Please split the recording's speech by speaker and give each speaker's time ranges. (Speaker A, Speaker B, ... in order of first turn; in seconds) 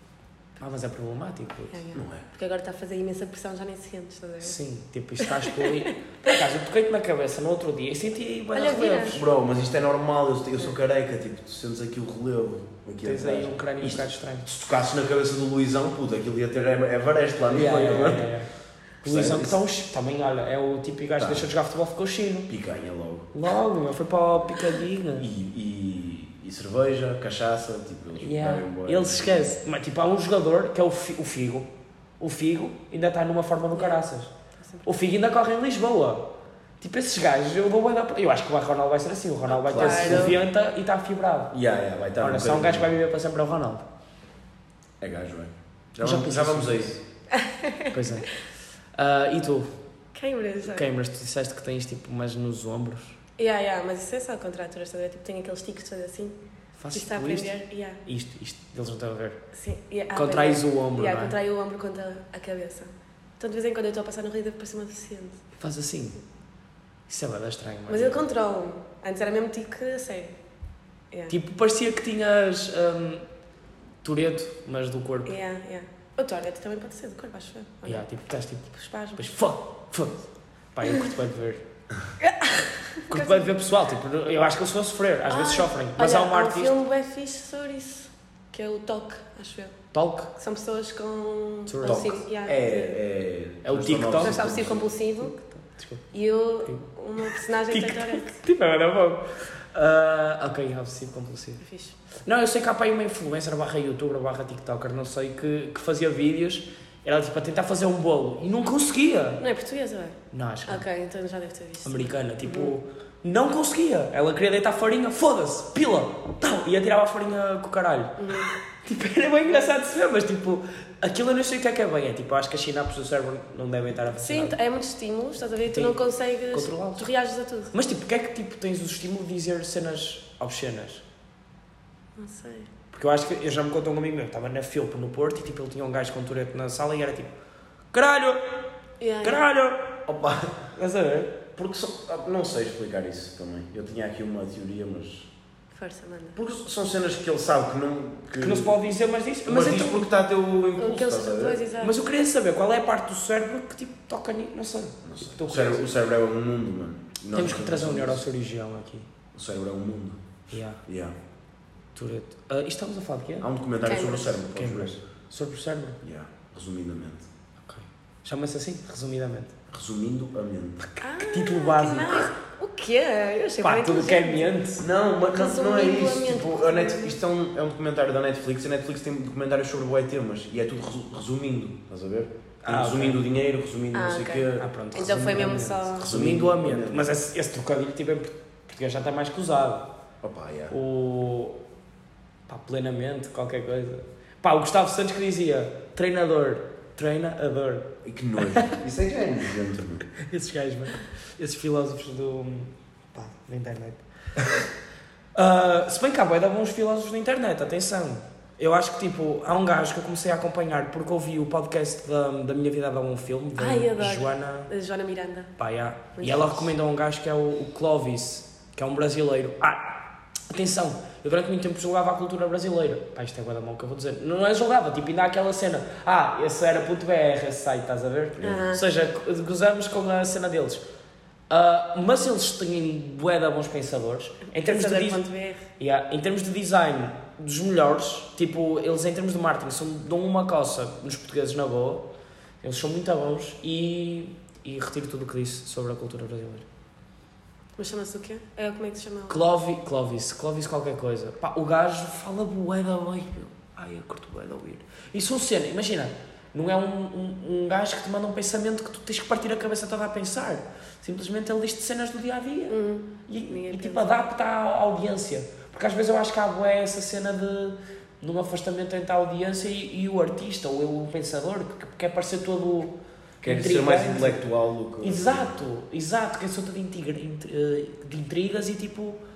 Speaker A: 0.6-1.8, 4.4-9.2, 13.0-14.5, 17.5-22.5, 23.3-25.3, 28.2-34.3, 34.8-41.5, 42.2-43.9, 46.0-47.0, 47.9-48.4, 48.9-49.7, 50.6-53.2, 56.8-57.5, 58.0-59.4, 60.1-61.3, 65.6-66.2, 67.1-68.2, 71.3-73.2, 74.0-75.3, 77.8-81.6, 83.1-86.7, 89.9-90.3, 91.7-92.0, 93.6-94.4, 95.2-96.0, 96.6-101.6, 102.2-109.4, 110.3-110.8, 111.8-124.5, 125.7-127.1, 127.7-131.0, 132.9-137.3, 137.9-138.4, 139.2-140.0, 140.8-141.4, 148.4-150.1, 151.8-155.9, 157.3-159.1, 160.5-160.8, 161.9-163.5, 164.5-166.0, 167.6-169.6, 170.9-172.3, 173.6-174.8, 182.6-183.2, 184.6-189.9, 190.7-191.6, 192.5-198.8, 200.2-204.0, 205.3-214.7, 215.6-230.8, 231.5-235.2, 235.8-242.1, 242.6-246.6, 249.3-274.4, 275.0-279.2
Speaker B: 1.7-4.6, 5.2-5.9, 8.5-9.2, 33.7-34.0, 34.6-34.9, 39.5-40.4, 47.3-47.9, 50.1-50.9, 53.4-56.4, 56.9-58.0, 59.5-65.4, 67.9-70.4, 75.2-78.1, 78.7-79.2, 82.2-83.5, 85.3-93.0, 94.2-95.3, 96.1-98.4, 101.6-102.0, 109.4-112.7, 118.2-118.5, 124.1-127.7, 132.2-132.7, 139.0-139.4, 145.7-146.4, 150.8-152.0, 163.8-164.4, 171.0-174.6, 175.3-177.2, 183.9-186.1, 213.6-215.5, 216.2-216.7, 228.4-228.8, 234.5-235.7, 247.8-249.4, 262.7-264.1
Speaker C: 1.9-2.2, 9.0-18.4, 19.0-19.6, 21.2-21.5, 22.5-23.3, 25.2-29.6, 39.7-40.4, 41.5-42.9, 45.0-47.0, 91.8-94.9, 140.1-140.6, 141.5-145.3, 146.3-148.8, 149.4-151.6, 155.0-158.2, 159.3-160.2, 160.8-161.1, 163.4-165.0, 166.0-167.3, 169.7-170.9, 174.8-184.7, 185.9-187.1, 190.2-190.7, 198.0-200.1, 228.4-228.7, 273.4-275.6